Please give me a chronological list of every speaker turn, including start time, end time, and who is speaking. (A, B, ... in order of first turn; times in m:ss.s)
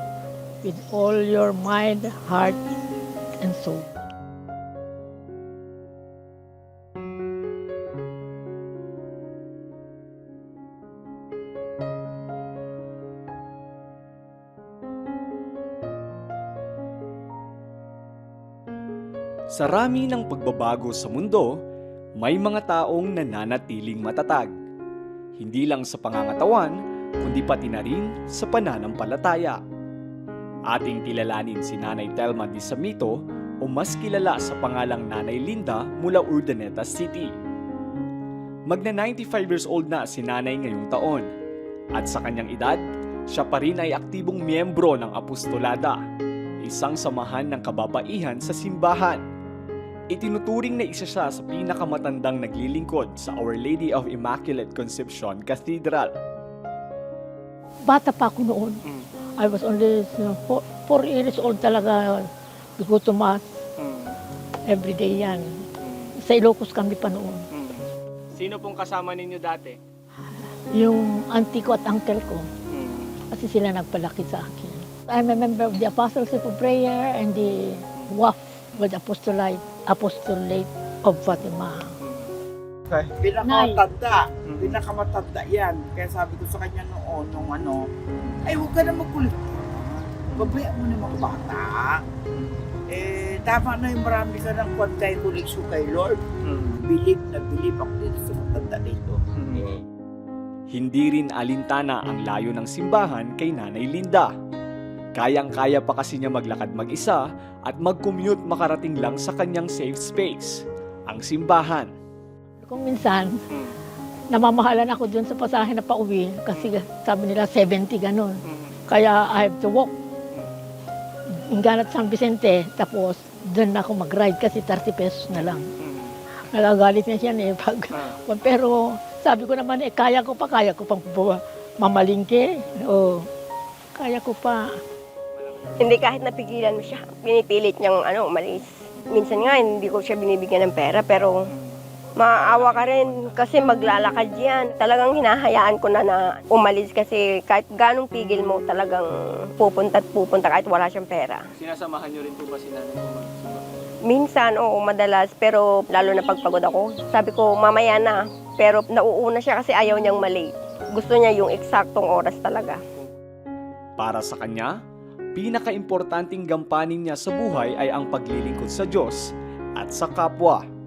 0:00.6-0:02.8 A
0:03.4-0:03.9 A
0:19.5-0:21.6 B
0:22.2-0:24.5 B
0:25.4-0:29.6 B
0:30.7-0:37.3 B
0:38.7-0:41.3 B
0:42.0-0:46.0 B
0:46.6-0:49.2 B
0:50.1-0:56.2 B
0:57.9-0:58.8 A
0:59.4-1:03.5 A
1:03.8-1:04.2 C
1:04.7-1:05.5 A
1:05.8-1:06.1 C
1:06.2-1:07.5 A
1:07.5-1:09.8 C
1:10.7-1:12.5 A
1:12.7-1:13.2 C
1:13.3-1:21.9 A
1:22.0-1:22.3 C
1:22.9-1:27.9 D
1:24.5-1:24.8 C
1:28.4-1:29.8 D
1:30.3-1:30.6 C
1:30.3-1:32.0 D
1:32.4-1:32.7 C
1:32.9-1:36.2 D
1:36.4-1:36.9 C
1:36.8-1:39.8 D
1:39.4-1:39.6 C
1:40.7-1:44.3 B
1:45.2-1:51.9 B
1:52.6-1:53.4 A
1:54.3-1:59.9 A
1:58.5-1:58.8 C
2:01.3-2:05.7 A
2:05.8-2:06.2 C
2:06.5-2:13.3 A
2:14.0-2:14.7 A
2:15.4-2:15.9 C
2:15.8-2:21.4 E
2:22.2-2:31.4 E
2:22.4-2:23.4 C
2:31.6-2:33.8 C
2:34.0-2:42.8 E
2:44.0-2:44.8 B
2:45.4-2:50.6 B